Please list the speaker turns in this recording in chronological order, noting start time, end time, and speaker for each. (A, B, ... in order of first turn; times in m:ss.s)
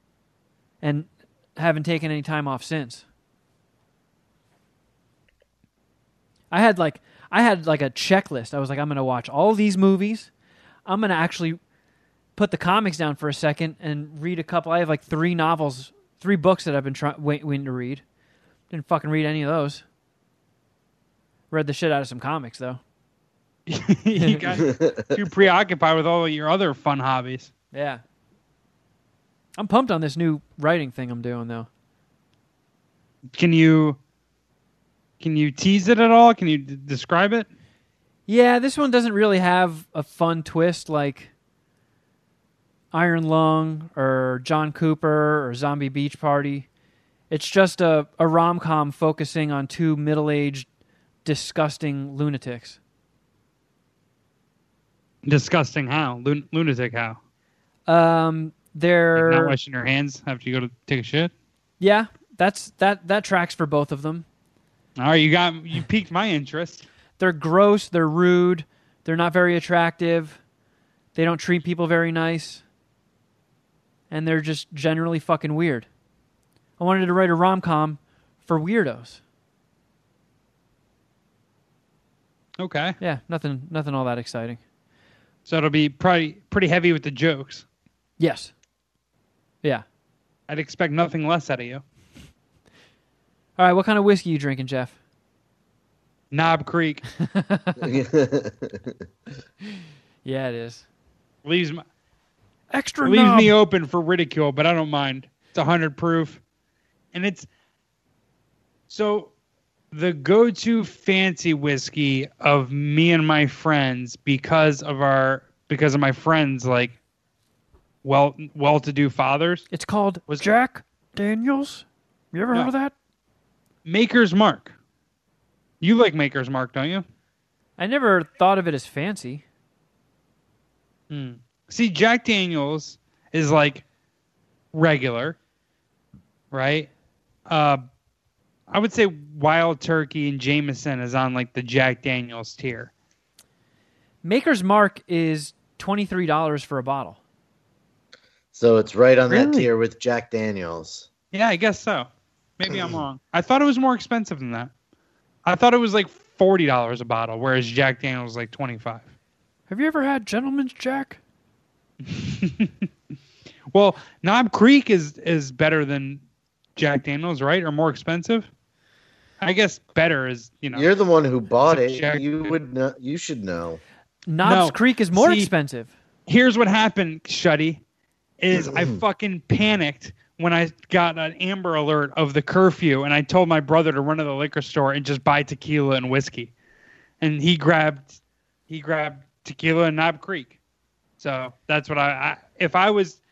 0:00.8-0:03.0 A
0:06.5-0:10.3 A
0:10.9-0:11.6 A
0:12.4-0:18.0 A
0:18.7-0:19.8 A
0:21.5-0:22.8 A
0:23.7-0:27.5 B
0:24.2-0:24.4 A
0:24.7-0:25.1 C
0:27.7-0:28.0 A
0:29.6-0:31.7 A
0:33.4-0:34.0 B
0:35.2-0:37.5 B
0:38.3-0:41.3 A
0:42.9-0:46.7 A
0:47.3-0:50.7 A
0:51.2-0:52.8 A
0:55.2-0:57.2 B
0:57.9-0:59.6 A
0:59.2-1:01.3 B
1:01.8-1:04.3 A
1:05.0-1:06.9 B
1:07.2-1:10.4 A
1:11.2-1:12.6 A
1:14.1-1:15.9 A
1:16.8-1:19.2 A
1:22.6-1:23.0 B
1:23.0-1:24.6 A
1:25.5-1:27.6 B
1:28.2-1:28.5 A
1:30.5-1:31.8 B
1:33.6-1:35.0 A
1:36.3-1:37.0 B
1:37.2-1:37.9 A
1:37.8-1:38.9 C
1:40.2-1:40.8 A
1:41.4-1:41.8 B
1:42.7-1:43.6 A
1:43.0-1:46.4 B
1:47.1-1:47.5 B
1:48.9-1:49.3 B
1:49.9-1:57.0 B
1:58.0-1:59.7 B
1:59.7-2:02.9 A
2:03.8-2:04.8 B
2:05.8-2:07.0 B
2:07.8-2:09.4 A
2:11.1-2:13.8 B
2:14.7-2:15.4 B
2:16.5-2:16.9 B
2:17.5-2:17.8 B
2:18.7-2:22.9 B
2:24.2-2:27.2 A
2:28.5-2:31.1 C
2:29.3-2:29.7 A
2:31.3-2:34.7 B
2:32.7-2:33.0 C
2:35.5-2:39.1 B
2:39.7-2:41.2 A
2:42.1-2:42.7 B
2:43.7-2:46.2 B
2:46.8-2:48.5 B
2:49.4-2:50.9 B
2:50.7-2:53.8 C
2:51.7-2:52.5 B
2:54.3-2:55.9 A
2:54.4-2:55.5 B
2:56.3-2:57.8 B
2:58.4-3:06.5 B
2:58.5-2:59.0 C
3:07.2-3:10.6 B
3:11.2-3:13.2 B